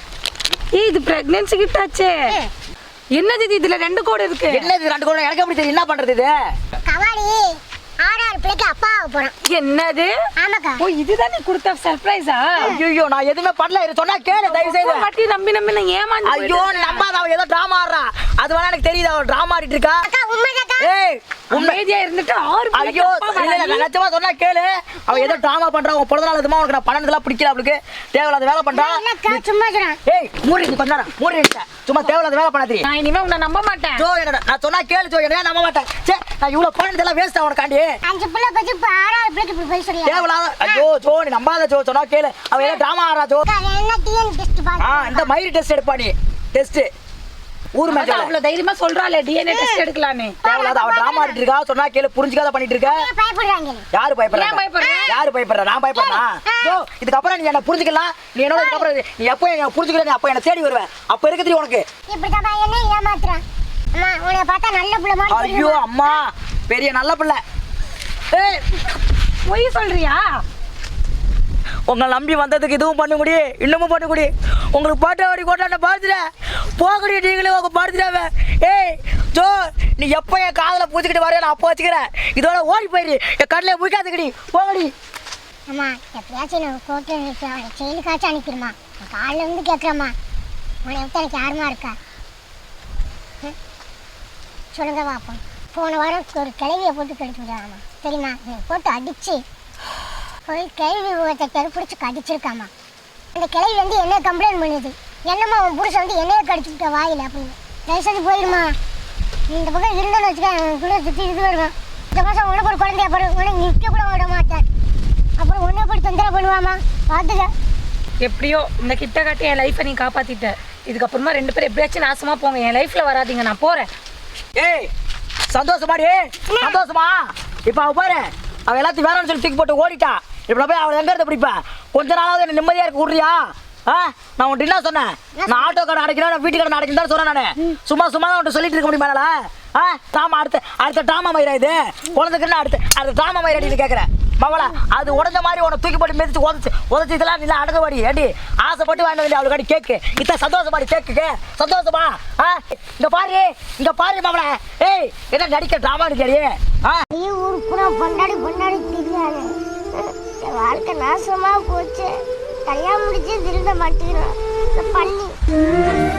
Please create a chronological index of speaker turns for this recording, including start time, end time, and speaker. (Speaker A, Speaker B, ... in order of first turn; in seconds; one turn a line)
Speaker A: 0.7-2.3
Speaker A: 3.1-4.7
Speaker B: 4.5-6.3
Speaker C: 6.8-9.3
Speaker A: 9.4-10.1
Speaker C: 10.4-10.8
Speaker A: 10.8-12.7
Speaker B: 12.6-15.1
Speaker A: 14.3-17.1
Speaker B: 16.2-20.0
Speaker C: 20.0-20.9
Speaker B: 20.8-21.8
Speaker A: 21.5-23.9
Speaker B: 22.7-29.4
Speaker C: 25.1-25.4
Speaker C: 28.7-30.0
Speaker B: 30.1-32.9
Speaker A: 32.8-34.0
Speaker B: 34.0-37.9
Speaker C: 38.0-40.9
Speaker B: 40.0-43.5
Speaker A: 42.5-42.8
Speaker C: 43.4-45.3
Speaker B: 44.8-46.9
Speaker B: 47.7-48.3
Speaker A: 47.9-50.4
Speaker C: 49.5-49.8
Speaker C: 50.4-51.4
Speaker B: 50.4-53.0
Speaker C: 52.8-53.9
Speaker B: 53.9-61.8
Speaker A: 54.3-55.1
Speaker C: 54.8-55.1
Speaker C: 55.9-56.8
Speaker C: 58.5-58.9
Speaker C: 62.1-63.4
Speaker C: 63.9-66.2
Speaker B: 65.3-67.4
Speaker B: 68.3-68.6
Speaker A: 69.5-70.4
Speaker B: 71.9-76.2
Speaker B: 76.8-84.9
Speaker C: 85.7-90.2
Speaker C: 90.8-92.0
Speaker C: 94.7-99.4
Speaker C: 100.5-102.7
Speaker C: 103.3-108.7
Speaker C: 109.5-114.6
Speaker C: 115.4-117.5
Speaker A: 118.2-123.9
Speaker B: 124.5-124.9
Speaker B: 125.5-157.0
Speaker C: 126.5-126.8
Speaker C: 135.3-135.8
Speaker C: 157.1-162.1
Speaker C: 162.7-165.3